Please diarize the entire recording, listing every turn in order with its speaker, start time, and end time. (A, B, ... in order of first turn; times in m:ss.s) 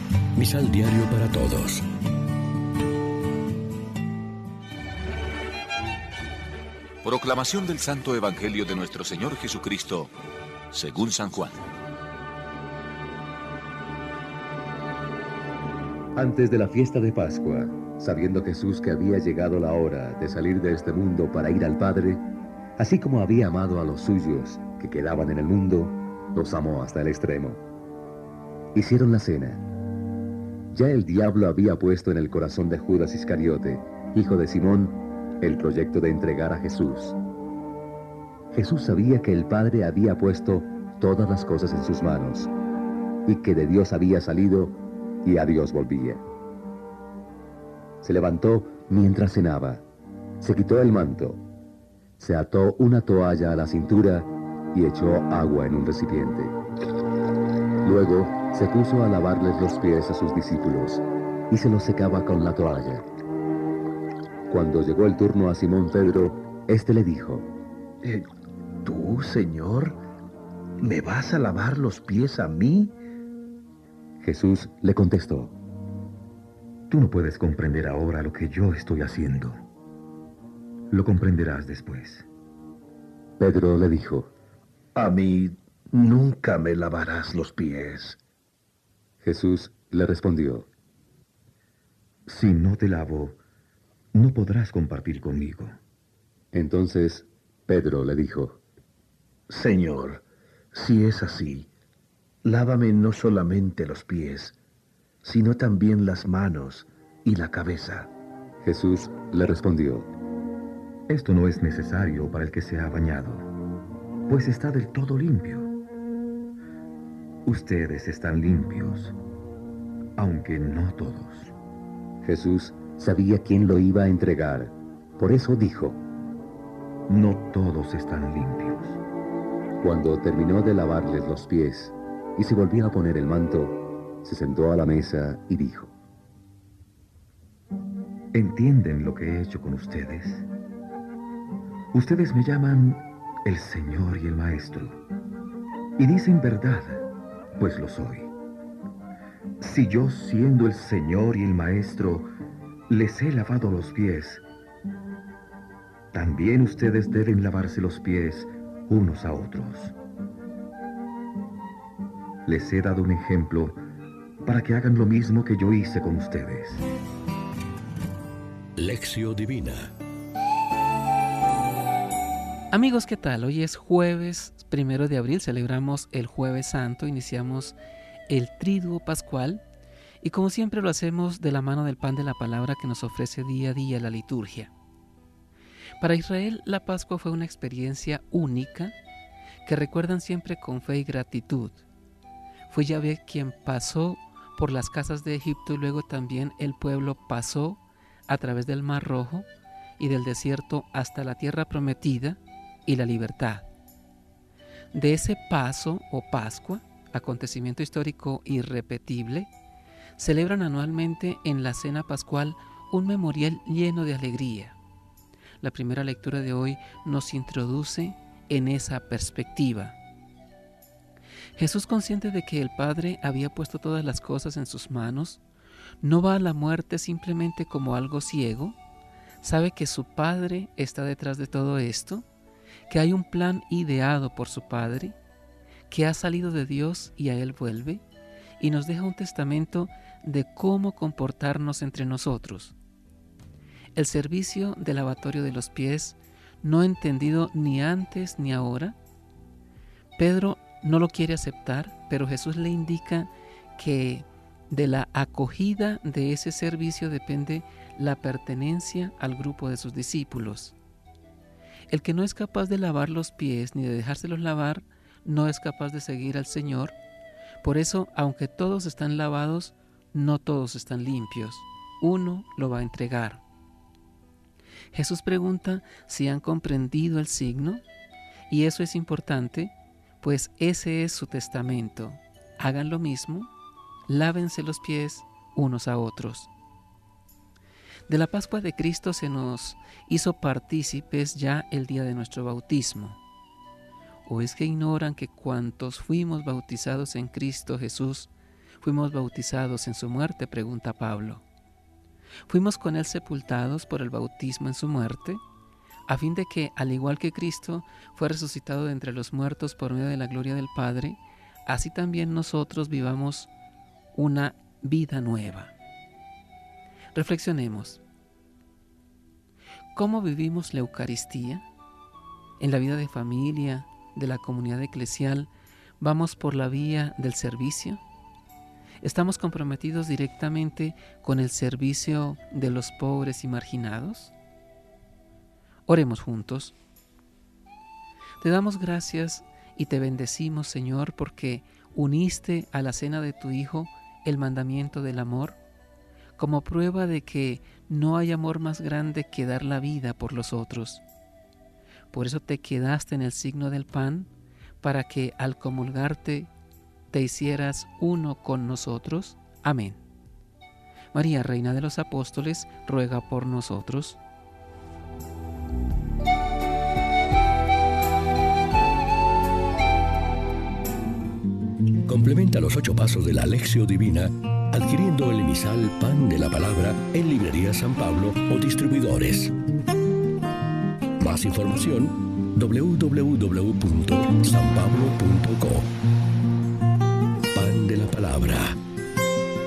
0:00.4-0:01.8 A
0:07.0-0:10.1 B
0:10.7-0:11.6 B
0:16.2-0:22.2 C
0:22.8-0:27.6 C
0:28.8-0:29.6 C
0:30.7-0:37.2 C
0:38.5-0:42.5 C
0:43.3-0:46.2 C
0:48.0-0:49.9 C
0:50.4-0:51.4 C
0:52.2-0:56.6 C
0:57.8-1:03.0 C
1:04.5-1:07.5 C
1:08.8-1:10.0 D
1:10.8-1:13.0 D
1:14.2-1:15.6 C
1:16.9-1:19.6 E
1:20.9-1:22.3 E
1:23.4-1:24.3 C
1:25.0-1:28.2 D
1:29.2-1:30.7 C
1:32.3-1:33.4 E
1:34.1-1:35.8 E
1:36.5-1:38.6 C
1:39.5-1:41.7 D
1:42.4-1:44.6 D
1:45.2-1:48.1 D
1:48.6-1:50.1 C
1:51.1-1:53.5 E
1:54.3-1:55.7 E
1:57.5-1:59.2 E
2:00.2-2:01.5 E
2:02.2-2:06.0 C
2:07.1-2:09.0 E
2:09.8-2:16.0 C
2:18.3-2:20.5 E
2:21.9-2:25.0 E
2:26.0-2:27.0 E
2:27.6-2:28.3 E
2:29.6-2:32.3 E
2:32.9-2:34.4 E
2:36.1-2:40.0 E
2:42.5-2:43.8 E
2:44.4-2:46.9 E
2:48.8-2:49.9 A
2:52.7-2:57.8 F
2:58.3-2:59.6 F
3:00.2-3:04.7 F
3:06.0-3:09.0 F
3:09.6-3:11.8 F
3:12.7-3:19.5 F
3:20.0-3:23.7 F
3:24.9-3:29.5 F
3:30.2-3:34.8 F
3:35.6-3:40.0 F
3:41.6-3:45.4 F
3:46.0-3:48.8 F
3:49.4-3:52.3 F
3:52.9-3:55.2 F
3:55.9-3:58.0 F
3:58.6-4:02.8 F
4:04.0-4:09.0 F
4:10.2-4:20.8 F
4:21.9-4:27.0 F
4:27.6-4:33.4 F
4:34.9-4:37.8 F
4:38.5-4:43.5 F
4:44.1-4:46.5 F
4:48.1-4:53.2 F
4:54.3-5:01.4 F
5:02.5-5:05.4 F
5:06.1-5:13.5 F
5:14.1-5:15.7 F
5:17.1-5:18.0 F
5:19.9-5:21.7 F
5:22.6-5:28.0 F
5:29.0-5:34.3 F
5:35.9-5:36.8 F
5:38.4-5:45.6 F
5:46.4-5:51.0 F
5:52.1-5:56.5 F
5:57.1-6:00.0 F
6:01.1-6:04.2 F
6:12.1-6:19.5 A
6:21.2-6:25.9 A
6:27.6-6:28.8 A